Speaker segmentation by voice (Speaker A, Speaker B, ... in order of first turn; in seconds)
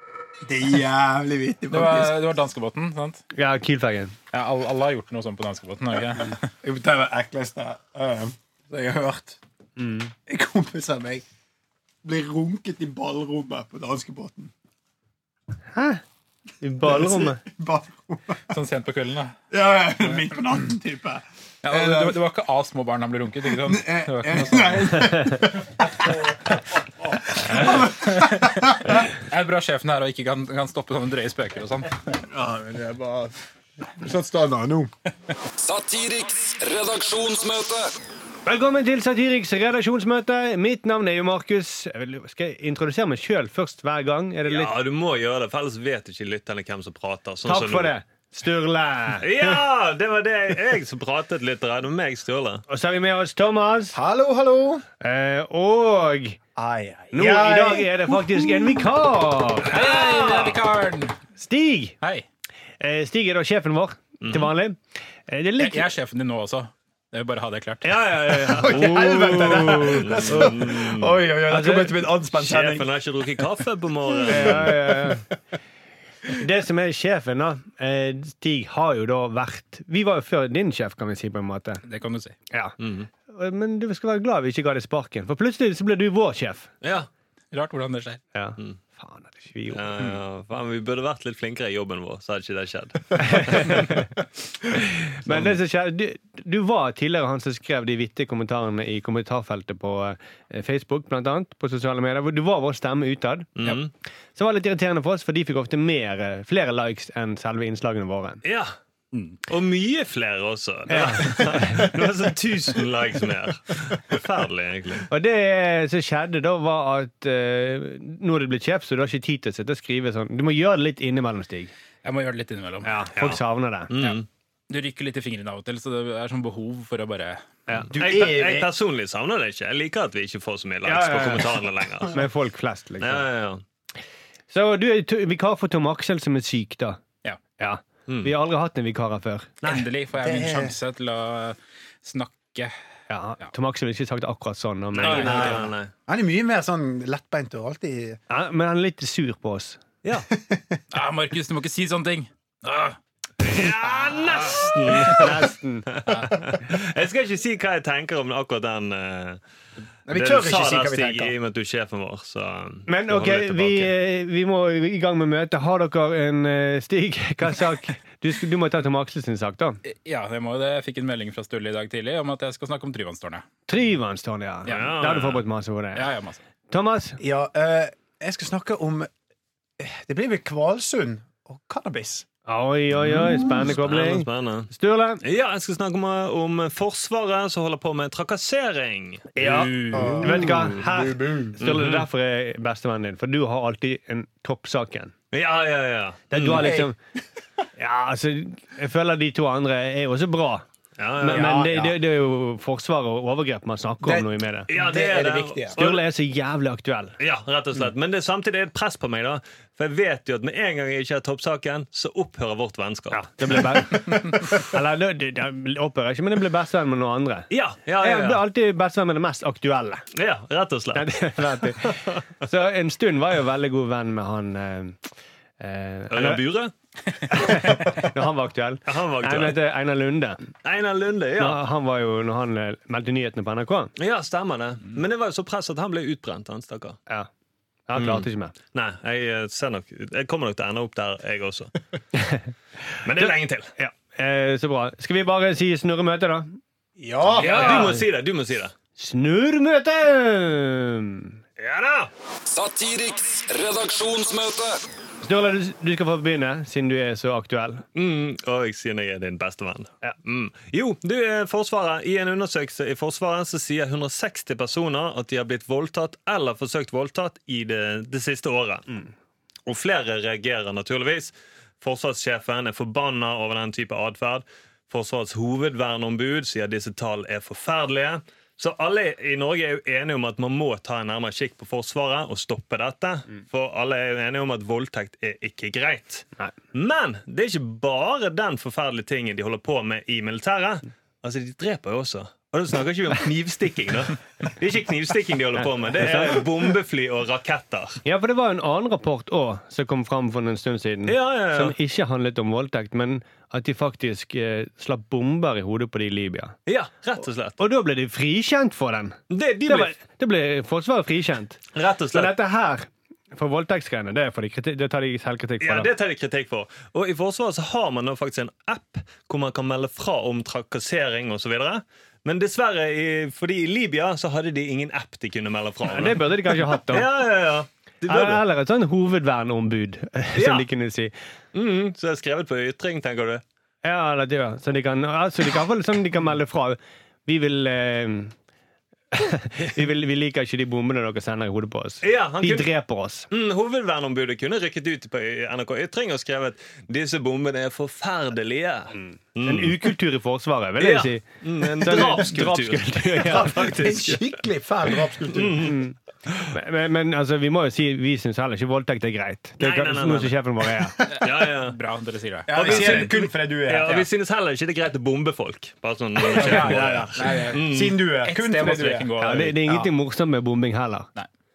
Speaker A: 0.4-2.2, 6.6-9.4, 10.3-11.2, 12.0-14.5, 16.8-18.5, 19.5-22.2, 23.5-26.2, 27.4-28.6, 32.3-33.3, 34.0-34.9, 53.9-54.8, 56.5-58.9, 68.5-72.9, 74.3-75.0, 127.9-128.7, 140.2-140.7, 145.1-148.2, 150.3-150.8, 160.1-161.3, 177.2-179.1, 179.8-182.2, 189.9-191.6, 196.6-196.9, 201.3-201.9, 204.0-205.8, 247.0-247.9, 353.3-355.7, 362.5-364.0, 366.2-369.1
Speaker B: 1.7-3.2, 4.3-6.5, 18.5-19.3, 21.6-25.2, 27.4-32.1, 59.6-61.2, 62.0-62.2, 65.6-67.9, 81.8-82.3, 87.5-88.2, 122.0-122.9, 124.0-127.6, 139.6-142.7, 145.0-145.6, 150.9-153.0, 169.8-173.4, 174.6-174.9, 175.9-176.4, 189.6-190.0, 361.2-363.2, 366.3-367.7, 368.2-369.6
Speaker C: 3.3-4.1, 9.8-10.1, 15.7-16.0, 16.6-17.4, 38.5-44.7, 47.5-49.5, 52.7-54.0, 55.0-56.4, 57.1-59.7, 61.4-62.0, 62.8-65.9, 67.8-70.5, 71.5-72.1, 74.2-75.2, 76.3-81.8, 82.5-86.7, 88.3-89.9, 93.2-94.0, 95.2-103.5, 104.3-108.4, 110.9-111.8, 115.1-121.7, 122.8-123.9, 130.8-133.3, 134.5-137.0, 137.6-139.5, 143.1-145.6, 148.3-149.8, 155.0-155.9, 162.9-169.8, 173.7-176.1, 176.7-177.2, 182.5-185.2, 189.3-195.1, 196.3-196.9, 197.8-200.6, 201.2-204.7, 205.8-207.2, 213.1-220.0, 220.9-225.0, 225.6-226.5, 227.3-230.5, 231.4-233.9, 237.9-238.5, 243.2-246.6, 247.3-248.0, 249.0-251.4, 255.2-257.8, 295.9-296.5, 298.0-306.6, 307.6-311.6, 312.1-315.9, 325.9-327.1, 328.1-331.1, 333.8-338.3, 339.1-343.3, 349.4-354.0, 355.6-361.0, 369.2-371.1
Speaker D: 35.6-37.9, 252.5-254.8
Speaker E: 44.5-47.9, 49.2-52.6, 59.7-60.6, 64.2-64.5, 68.1-68.8, 69.6-71.2, 72.3-74.8, 82.8-83.1, 86.8-87.1, 89.7-94.0, 95.3-95.5, 103.5-103.9, 108.4-108.7, 109.4-115.1, 123.2-124.2, 127.9-132.2, 133.0-133.6, 138.1-138.3, 139.6-139.9, 144.9-145.9, 153.4-159.4, 160.1-163.9, 174.7-175.4, 183.0-184.7, 185.2-190.5, 191.6-192.1, 195.3-196.8, 201.0-201.5, 204.7-206.0, 207.2-213.8, 217.5-218.4, 220.1-222.2, 226.1-226.7, 228.8-229.6, 230.6-231.6, 234.0-237.0, 237.9-241.7, 243.0-243.7, 247.4-248.7, 251.6-252.1, 257.9-268.9, 269.7-298.0, 301.1-301.7, 306.6-307.6, 309.3-309.9, 311.7-312.3, 315.6-328.4, 330.3-330.7, 331.5-333.4, 342.0-342.7, 343.3-349.9, 350.8-354.2, 355.3-355.8, 359.6-360.4, 361.2-361.8, 362.5-368.0